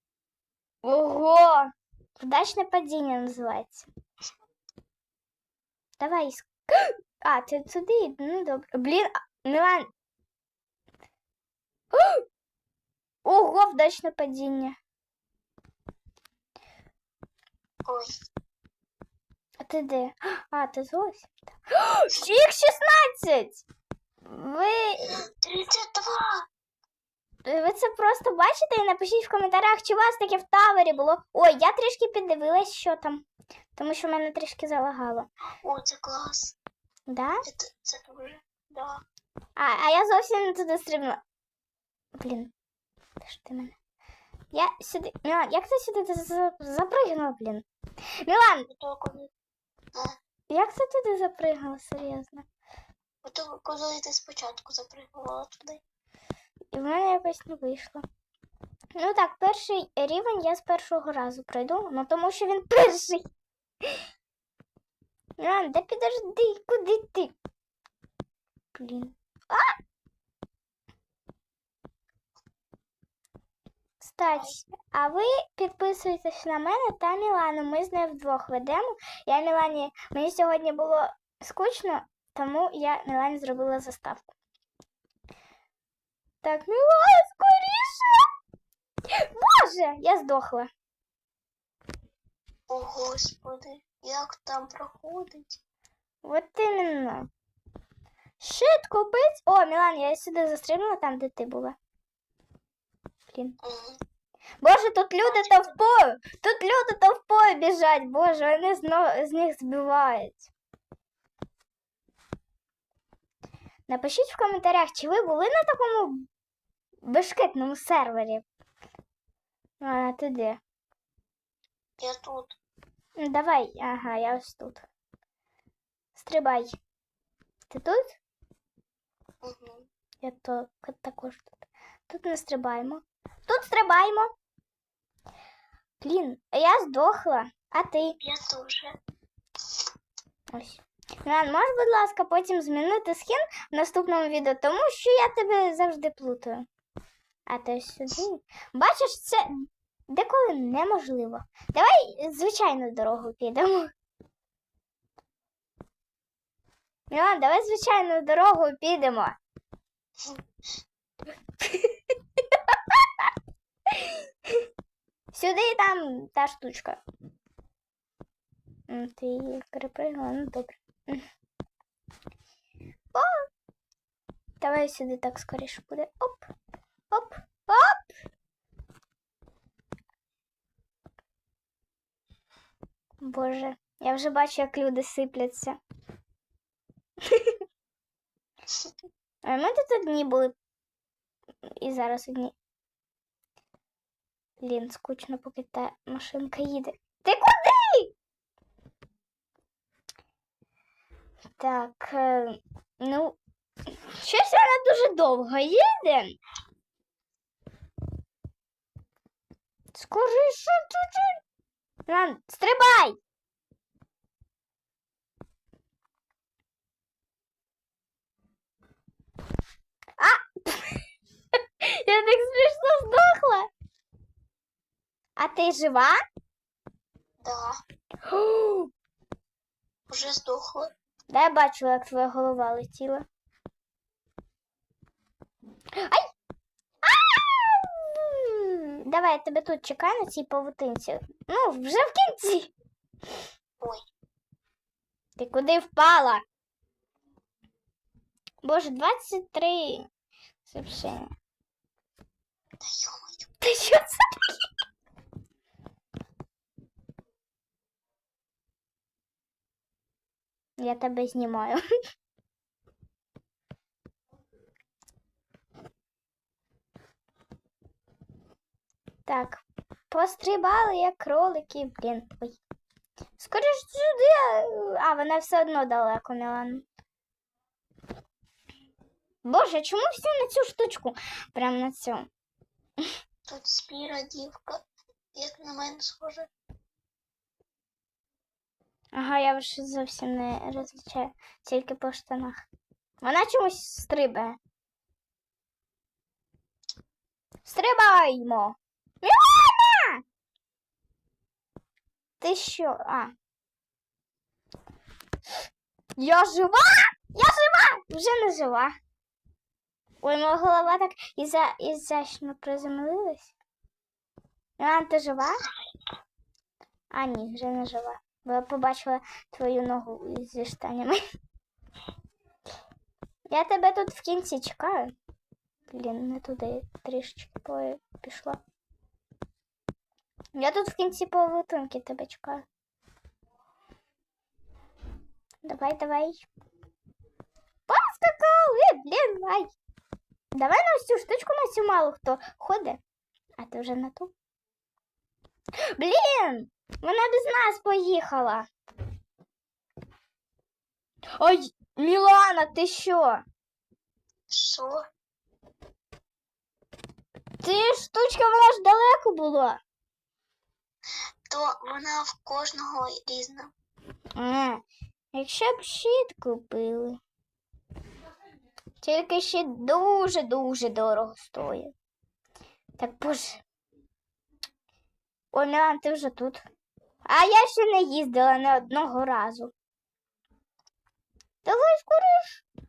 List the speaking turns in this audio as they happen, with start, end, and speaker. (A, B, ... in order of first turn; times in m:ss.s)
0:00.8-0:03.9 A
0:06.0-0:09.9 A
0:11.9-0:12.2 A
0:13.2-0:14.7 A
0:17.8-0:18.1 B
0:19.6-0:23.6 A
0:24.2-0:25.2 A
0:25.1-0:26.5 B
0:27.4-0:35.3 A
0:35.6-0:36.5 B
0:37.1-0:37.4 A
0:37.4-0:39.0 B
0:39.6-0:41.2 A
0:42.2-0:42.5 A
0:43.2-0:43.8 A
0:44.5-0:47.6 A
0:48.2-0:48.7 A
0:48.7-0:49.3 B
0:50.5-0:52.4 A
0:53.2-0:55.8 B
0:56.7-0:58.0 A
0:59.0-1:03.2 A
1:05.4-1:07.3 A
1:08.7-1:09.8 A
1:14.0-1:24.3 A
1:14.2-1:14.6 B
1:26.4-1:28.2 A
1:29.1-1:30.7 A
1:32.7-1:35.6 B
1:36.2-1:37.3 A
1:38.4-1:41.8 A
1:43.3-1:43.6 A
1:43.6-1:44.0 B
1:44.6-1:50.5 A
1:45.2-1:45.7 B
1:53.9-1:56.2 A
1:57.0-1:58.4 A
1:59.8-2:00.6 A
2:02.0-2:02.6 B
2:03.2-2:04.8 A
2:06.1-2:06.8 A
2:07.7-2:08.2 A
2:09.4-2:09.9 B
2:10.2-2:14.3 A
2:16.0-2:18.2 A
2:18.2-2:19.0 B
2:20.5-2:26.6 A
2:27.5-2:33.9 A
2:37.1-2:39.3 A
2:41.6-2:43.3 A
2:43.9-2:44.6 A
2:45.3-2:47.0 A
2:48.9-2:51.2 A
2:53.1-2:53.4 A
2:54.6-2:56.5 A
2:57.1-2:58.1 A
3:03.2-3:05.8 A
3:07.3-3:07.6 A
3:09.4-3:10.5 A
3:11.6-3:12.5 A
3:14.6-3:18.1 A
3:21.6-3:23.4 A
3:23.9-3:26.4 A
3:29.9-3:31.4 A
3:32.1-3:33.2 A
3:40.2-3:41.0 A
3:41.8-3:43.7 A
3:45.4-3:46.2 A
3:47.4-3:47.8 B
3:48.2-3:48.9 A
3:50.1-3:50.9 B
3:51.3-3:53.2 A
3:56.0-3:56.3 A
3:57.0-4:02.7 A
4:05.4-4:06.4 A
4:08.6-4:10.0 A
4:10.6-4:11.3 A
4:12.8-4:13.5 B
4:13.6-4:14.6 A
4:20.8-4:21.8 A
4:29.2-4:32.6 A
4:33.4-4:36.8 A
4:39.4-4:42.3 A
4:43.5-4:44.8 B
4:45.3-4:46.5 B
4:49.1-4:52.6 A
4:53.2-4:54.6 A
4:57.6-5:00.2 A
5:02.4-5:03.3 A
5:06.2-5:08.9 A
5:10.2-5:13.5 A
5:14.8-5:15.6 A
5:17.1-5:21.2 A
5:23.5-5:25.1 A
5:25.9-5:28.6 A
5:30.5-5:32.6 A
5:35.6-5:36.5 A
5:37.9-5:39.7 A
5:40.5-5:43.0 A
5:43.6-5:44.3 A
5:46.0-5:48.7 A
5:51.4-5:53.4 A
5:54.5-5:55.0 B
5:57.6-5:59.8 A
6:01.5-6:03.7 B
6:04.3-6:07.2 A
6:09.0-6:11.9 A
6:13.0-6:13.6 A
6:15.5-6:16.6 A
6:17.2-6:19.7 A
6:21.6-6:22.6 A